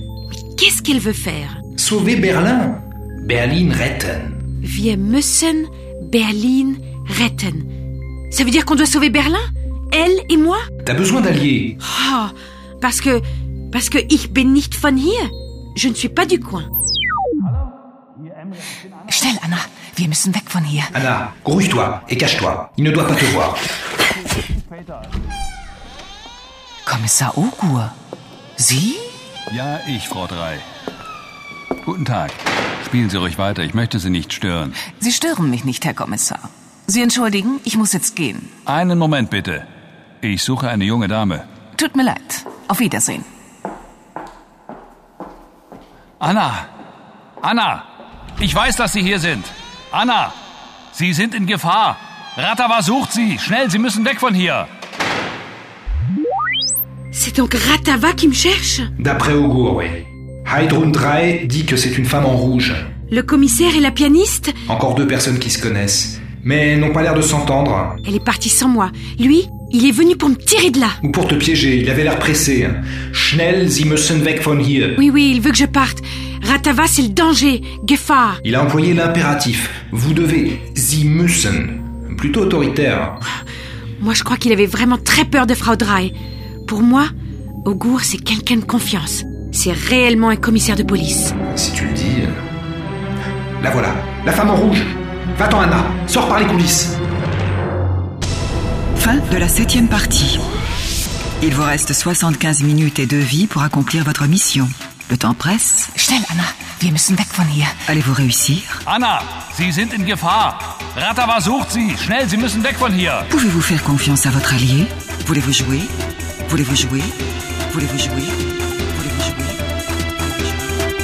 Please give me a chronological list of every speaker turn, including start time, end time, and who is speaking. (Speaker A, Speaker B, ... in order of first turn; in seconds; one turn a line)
Speaker A: 0.3-1.6
Speaker B: 1.8-4.4
Speaker A: 4.6-7.7
Speaker A: 8.3-10.6
Speaker B: 10.8-11.8
Speaker A: 11.8-16.7
Speaker C: 19.1-20.9
Speaker B: 20.9-23.6
Speaker C: 26.9-27.9
Speaker C: 28.6-29.1
Speaker D: 29.5-30.6
Speaker D: 31.8-34.8
Speaker C: 34.8-38.5
Speaker D: 38.6-39.6
Speaker D: 40.2-41.5
Speaker C: 41.7-43.3
Speaker D: 46.2-46.7
Speaker D: 47.4-47.8
Speaker D: 48.4-50.3
Speaker D: 50.9-54.7
Speaker A: 57.1-58.9
Speaker B: 59.0-62.9
Speaker A: 63.1-64.5
Speaker B: 64.7-68.0
Speaker A: 68.0-71.0
Speaker B: 71.0-75.0
Speaker A: 75.0-78.4
Speaker B: 78.4-83.2
Speaker A: 84.0-86.1
Speaker A: 86.6-87.1
Speaker A: 87.6-91.3
Speaker B: 91.5-92.4
Speaker B: 93.6-97.0
Speaker E: 99.0-100.4
Speaker E: 101.4-105.9
Speaker C: 106.0-107.8
Speaker E: 107.9-108.8
Speaker D: 108.8-113.3
Speaker E: 113.3-116.0
Speaker E: 116.5-119.6
Speaker E: 120.2-120.8